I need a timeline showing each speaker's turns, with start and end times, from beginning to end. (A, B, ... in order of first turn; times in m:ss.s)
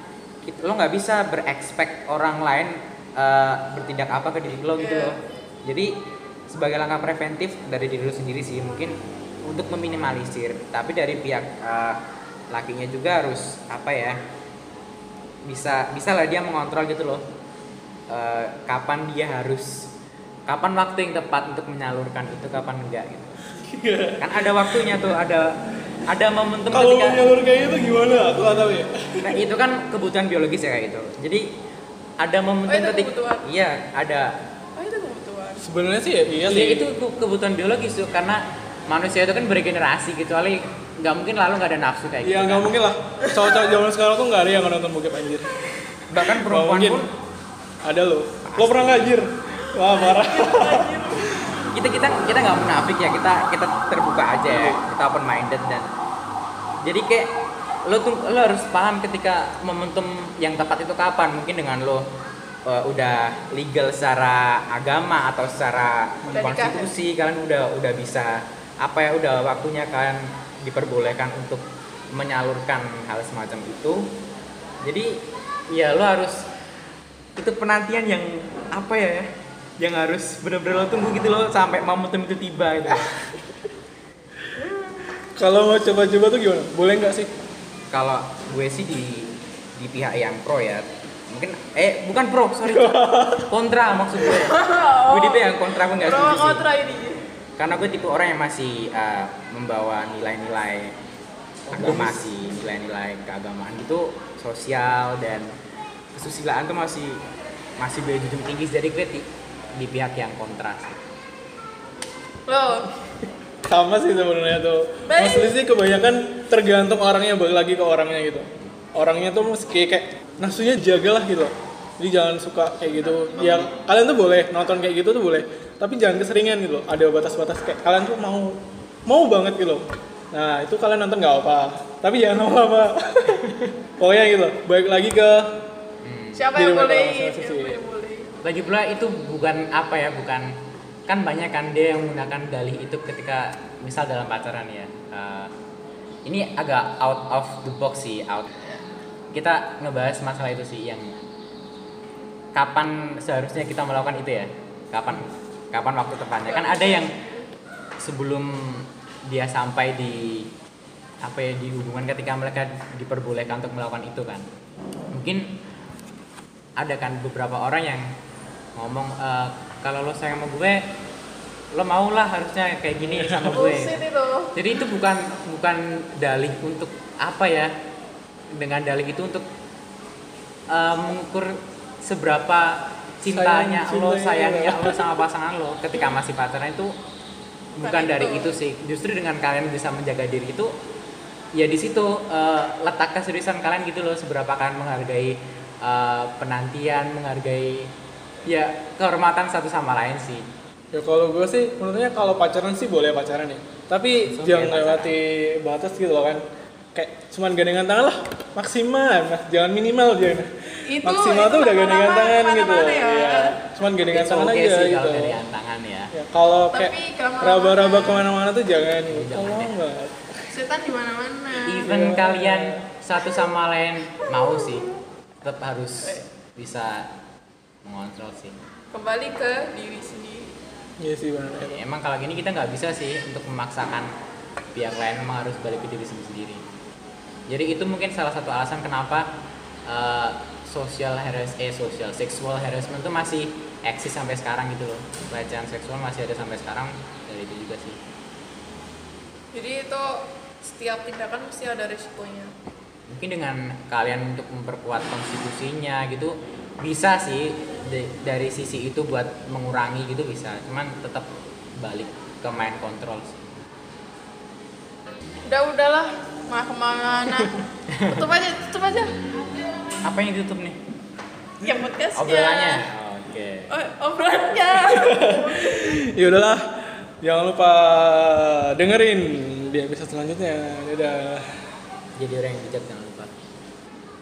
0:00.4-0:05.9 A
0:04.8-0:05.2 B
0:06.5-0:12.0 A
0:12.5-0:14.2 A
0:15.4-0:17.2 A
0:18.1-0:19.9 A
0:20.5-0:23.4 A
0:23.6-0:25.0 C
0:24.2-0:25.5 A
0:26.1-0:27.3 A
0:26.7-0:29.4 C
0:29.2-0:31.5 A
0:32.2-0:34.3 A
0:32.7-0:33.5 B
0:34.8-0:35.6 B
0:35.6-0:36.9 C
0:36.5-0:42.7 A
0:42.2-0:47.1 C
0:46.1-0:47.1 A
0:47.8-0:51.6 C
0:48.4-0:49.2 A
0:49.8-0:51.5 B
0:51.7-0:55.9 A
0:54.5-0:54.8 C
0:56.8-0:57.3 A
0:57.8-1:02.1 A
1:02.7-1:14.1 A
1:06.3-1:06.9 B
1:14.8-1:15.2 A
1:15.7-1:16.5 A
1:17.4-1:19.3 A
1:19.8-1:23.3 A
1:25.2-1:27.3 C
1:27.9-1:36.7 A
1:32.6-1:33.5 C
1:34.2-1:37.2 B
1:37.6-1:41.0 A
1:41.7-1:45.5 A
1:41.7-1:42.2 C
1:46.1-1:47.2 A
1:47.8-1:51.0 A
1:52.5-1:52.9 B
1:53.7-2:15.5 C
1:55.1-1:55.6 B
2:03.4-2:03.7 A
2:13.4-2:13.7 A
2:16.0-2:16.4 A
2:16.4-2:18.3 B
2:16.6-2:17.8 C
2:18.4-2:25.5 A
2:26.2-2:28.5 A
2:29.3-2:31.2 A
2:32.6-2:37.1 A
2:36.5-2:37.5 B
2:38.0-2:40.5 A
2:41.2-2:44.5 A
2:45.1-2:45.5 A
2:46.8-2:48.1 A
2:48.8-2:50.8 A
2:51.7-2:54.0 A
2:53.0-2:53.7 C
2:53.5-2:54.6 B
2:54.5-2:57.7 A
2:58.5-2:59.4 A
3:00.7-3:07.0 A
3:03.3-3:05.1 C
3:07.8-3:08.6 B
3:07.8-3:10.7 A
3:11.6-3:17.9 A
3:18.5-3:20.5 A
3:20.9-3:26.4 C
3:24.3-3:25.2 A
3:26.9-3:30.5 C
3:30.9-3:33.6 B
3:31.0-3:35.4 C
3:34.1-3:36.1 A
3:36.1-3:40.4 C
3:36.7-3:38.3 B
3:39.0-3:39.7 A
3:40.5-3:41.9 B
3:41.6-3:44.9 A
3:41.8-3:42.8 C
3:44.2-3:44.7 B
3:45.4-3:47.1 A
3:47.8-3:48.6 A
3:48.9-3:50.5 B
3:51.0-3:51.8 C
3:51.6-3:54.1 A
3:54.8-3:56.6 A
3:57.5-3:59.3 A
3:59.9-4:08.0 A
4:09.6-4:12.5 B
4:13.1-4:23.4 A
4:25.5-4:29.2 B
4:27.9-4:28.2 A
4:30.0-4:30.8 A
4:31.6-4:32.8 B
4:32.2-4:33.7 A
4:33.7-4:35.9 B
4:34.8-4:41.6 C
4:42.2-4:43.3 A